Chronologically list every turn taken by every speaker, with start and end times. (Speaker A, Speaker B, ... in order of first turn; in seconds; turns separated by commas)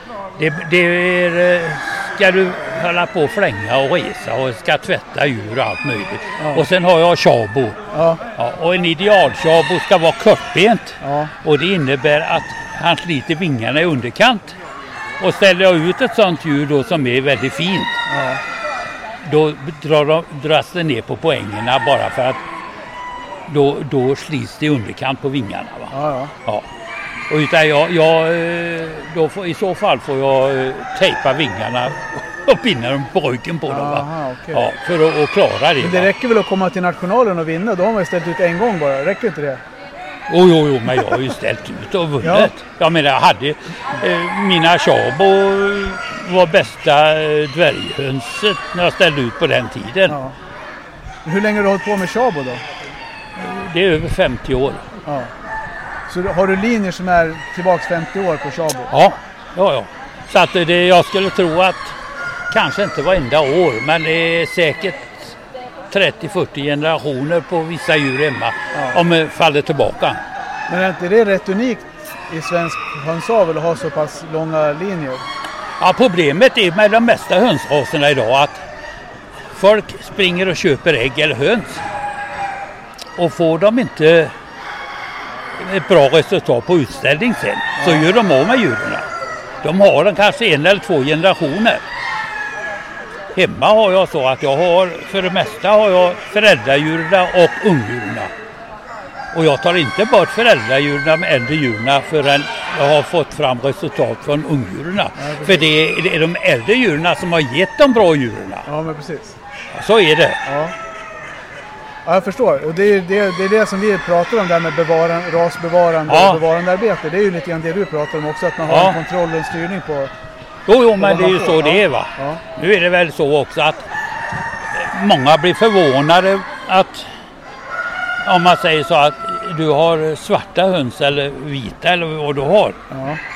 Speaker A: 0.4-7.8, Speaker B: 6.4-6.7, Speaker B: 7.9-8.2, Speaker A: 8.4-14.6, Speaker B: 11.0-11.3, Speaker A: 15.2-17.9, Speaker B: 18.1-18.4, Speaker A: 19.2-22.4, Speaker A: 23.5-25.9, Speaker B: 25.9-26.3, Speaker A: 27.3-36.1, Speaker B: 33.7-34.7, Speaker B: 35.8-39.6, Speaker A: 40.3-50.2, Speaker B: 42.2-42.5, Speaker B: 50.1-50.4, Speaker B: 51.2-52.6, Speaker A: 53.4-54.8, Speaker B: 55.0-55.3, Speaker B: 56.1-58.9, Speaker A: 58.9-61.9, Speaker A: 62.5-65.3, Speaker A: 65.9-70.2, Speaker B: 68.7-69.0, Speaker B: 70.7-75.2, Speaker A: 75.8-78.6, Speaker A: 79.5-81.8, Speaker A: 83.2-84.3, Speaker A: 85.6-89.0, Speaker B: 87.8-88.1, Speaker A: 89.6-91.8, Speaker A: 93.3-98.3, Speaker A: 99.3-108.7, Speaker B: 105.2-105.7, Speaker B: 108.7-109.4, Speaker A: 109.7-110.4, Speaker B: 110.5-110.8, Speaker B: 112.0-120.1, Speaker A: 116.1-116.4, Speaker A: 118.7-119.0, Speaker A: 120.7-123.9, Speaker B: 121.0-122.4, Speaker A: 124.8-127.1, Speaker A: 128.2-132.8, Speaker B: 132.9-133.2